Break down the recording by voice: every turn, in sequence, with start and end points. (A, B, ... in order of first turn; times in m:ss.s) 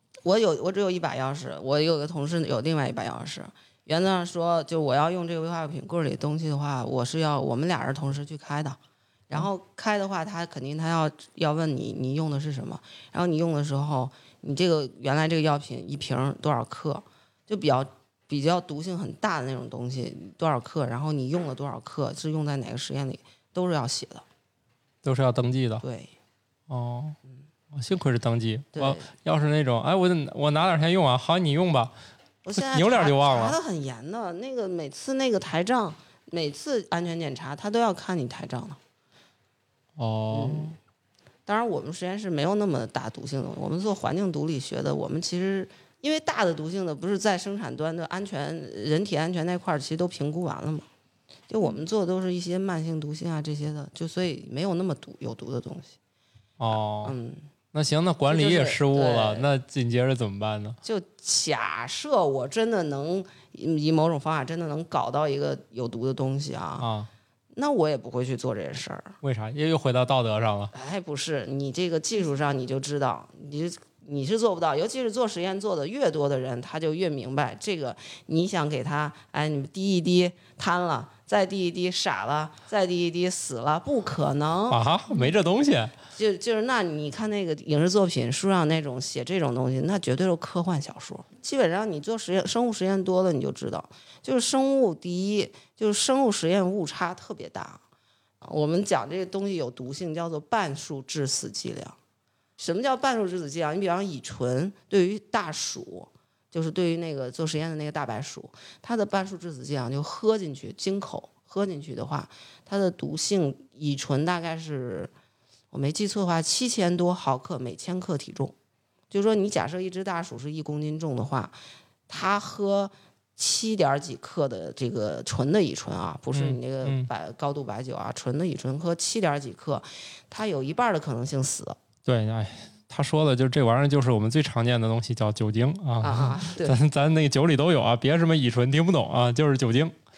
0:00.2-0:08.8 A
0:09.3-0:24.2 A
0:25.0-0:25.8 B
0:25.8-0:26.1 A
0:26.7-0:27.2 B
0:27.7-0:31.9 B
0:28.7-0:29.1 A
0:32.4-0:38.8 A
0:32.6-0:33.6 B
0:40.0-0:40.7 B
0:40.3-0:40.7 A
0:41.4-0:50.9 A
0:51.5-0:56.0 A
0:56.6-0:57.1 B
0:57.0-0:57.4 A
0:57.7-1:00.8 B
0:58.3-0:59.5 A
1:00.8-1:06.9 A
1:06.8-1:07.1 B
1:07.5-1:09.2 A
1:09.2-1:10.7 B
1:10.7-1:24.8 A
1:24.7-1:25.9 B
1:26.1-1:37.8 A
1:38.4-1:42.0 A
1:42.6-1:55.1 A
1:55.7-1:58.5 A
1:59.1-2:01.6 A
2:02.1-2:11.8 A
2:06.3-2:07.1 B
2:12.0-2:19.9 B
2:16.0-2:16.8 A